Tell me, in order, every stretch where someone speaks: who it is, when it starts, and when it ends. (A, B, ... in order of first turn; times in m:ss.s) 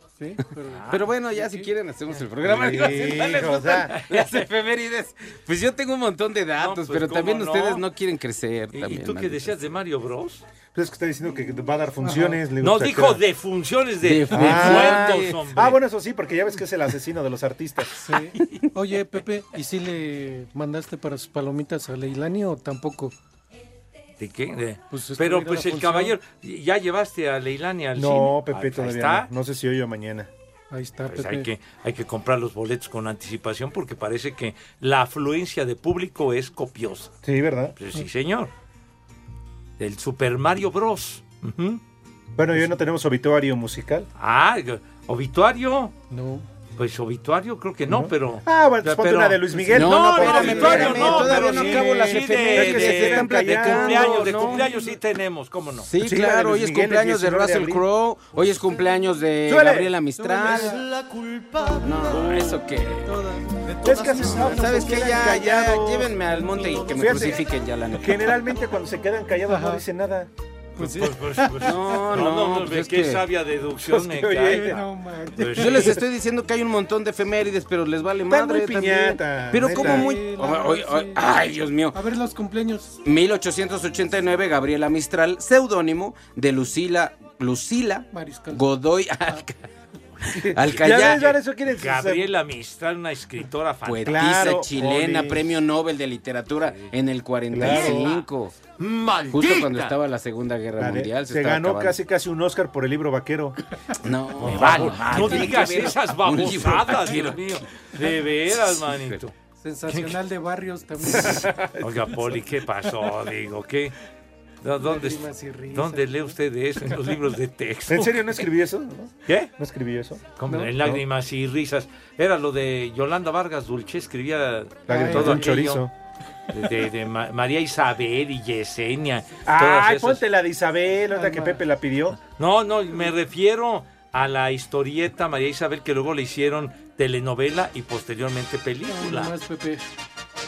0:00.2-0:01.7 A
0:00.7-0:01.1 B
0:00.9-0:09.5 C
0:02.4-0:03.9 D
0:03.9-0:04.5 B
0:06.6-0:07.8 B
0:08.7-0:10.4 B
0:10.7-0:13.2 D
0:12.0-0:12.4 A
0:12.6-0:15.8 B
0:14.0-0:15.4 C
0:14.3-0:17.9 D
0:18.0-0:23.1 A
0:24.2-0:29.3 B
0:24.9-0:26.2 A
0:28.0-0:30.3 D
0:30.7-0:31.5 A
0:31.1-0:37.1 B
0:37.2-0:37.8 D
0:37.8-0:38.5 B
0:39.8-0:41.8 B
0:42.4-0:44.1 D
0:44.2-0:45.9 B
0:46.1-0:46.5 A
0:46.8-0:55.9 B
0:47.9-0:54.5 D
0:49.7-0:54.7 C
0:55.8-1:00.8 C
0:56.0-0:57.8 D
0:59.5-0:59.9 D
1:00.2-1:04.8 A
1:01.8-1:03.2 C
1:03.8-1:06.1 D
1:04.2-1:08.3 C
1:06.8-1:07.4 D
1:08.0-1:10.3 D
1:09.4-1:09.8 A
1:10.8-1:14.8 B
1:10.8-1:12.0 A
1:11.6-1:13.2 C
1:13.9-1:14.8 D
1:14.5-1:16.0 A
1:15.4-1:16.0 B
1:15.6-1:22.0 C
1:18.3-1:20.1 D
1:19.7-1:21.2 A
1:21.9-1:23.0 A
1:23.0-1:29.5 C
1:28.1-1:28.7 A
1:30.4-1:32.3 D
1:30.5-1:31.3 C
1:30.7-1:34.2 B
1:33.8-1:38.6 C
1:34.0-1:35.5 D
1:37.5-1:38.1 D
1:37.6-1:38.2 B
1:38.8-1:39.9 B
1:39.3-1:42.0 C
1:40.8-1:43.6 D
1:44.0-1:47.4 C
1:44.4-1:49.3 B
1:48.5-1:49.2 C
1:49.6-1:51.5 A
1:49.9-1:50.2 B
1:51.3-1:51.8 D
1:51.8-1:54.0 B
1:54.6-1:58.5 B
1:54.8-1:56.4 A
1:57.9-2:00.3 D
2:00.4-2:05.8 B
2:00.5-2:00.8 A
2:04.9-2:05.6 A
2:04.9-2:05.9 D
2:06.5-2:10.2 B
2:09.5-2:12.2 D
2:11.1-2:11.6 A
2:12.2-2:19.3 B
2:18.9-2:19.9 A